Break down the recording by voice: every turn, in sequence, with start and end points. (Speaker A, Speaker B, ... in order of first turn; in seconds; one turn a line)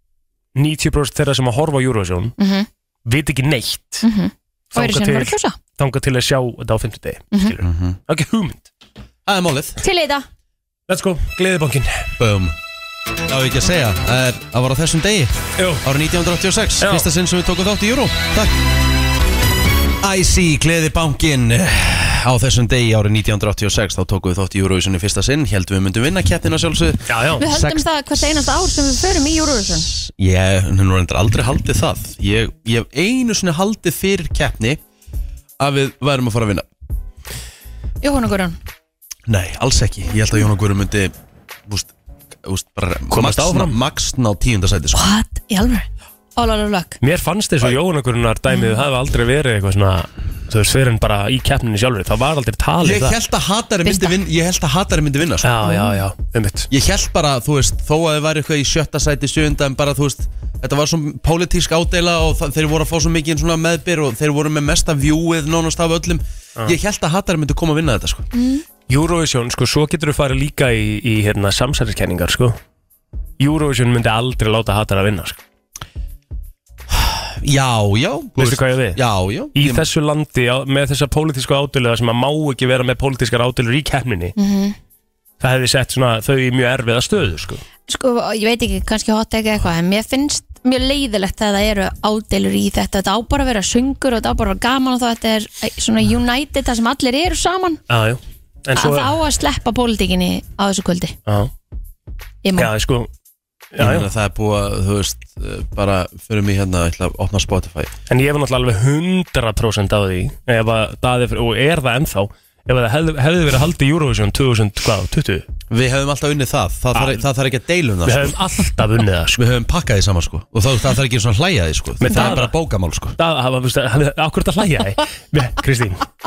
Speaker A: 0.6-2.3
Speaker B: 2.4-2.7
Speaker A: 3.1-4.0
Speaker B: 4.0-5.6
Speaker A: 4.7-8.7
Speaker C: 7.6-8.0
Speaker C: 9.3-9.8
Speaker B: 9.8-10.3
Speaker A: 10.9-12.1
Speaker C: 12.2-12.6
Speaker C: 13.3-18.6
Speaker A: 15.6-15.8
Speaker A: 16.8-17.1
Speaker C: 20.0-27.8
Speaker A: 27.1-27.4
Speaker B: 27.4-29.9
Speaker C: 29.9-34.8
Speaker C: 35.6-36.7
Speaker B: 38.0-38.6
Speaker C: 39.3-41.1
Speaker C: 41.7-41.9
Speaker C: 42.4-45.1
Speaker A: 43.1-43.8
Speaker B: 44.9-47.0
Speaker A: 47.0-53.2
Speaker B: 48.5-48.8
Speaker C: 52.8-55.5
Speaker B: 53.8-54.2
Speaker A: 55.4-56.7
Speaker B: 55.6-56.0
Speaker C: 56.7-68.3
Speaker B: 68.3-68.6
Speaker A: 68.9-72.6
Speaker A: 73.4-75.4
Speaker C: 76.9-79.9
Speaker A: 78.4-79.0
Speaker A: 79.5-84.3
Speaker B: 84.4-84.8
Speaker A: 85.4-87.6
Speaker B: 87.9-97.8
Speaker A: 97.9-99.1
Speaker B: 98.8-101.2
Speaker B: 102.4-102.7
Speaker A: 102.6-103.1
Speaker A: 103.7-104.1
Speaker C: 103.8-107.9
Speaker A: 108.1-115.5
Speaker C: 115.7-118.4
Speaker A: 117.0-117.2
Speaker A: 118.0-119.4
Speaker C: 119.4-123.2
Speaker A: 122.0-122.5
Speaker B: 122.1-122.3
Speaker A: 123.2-126.1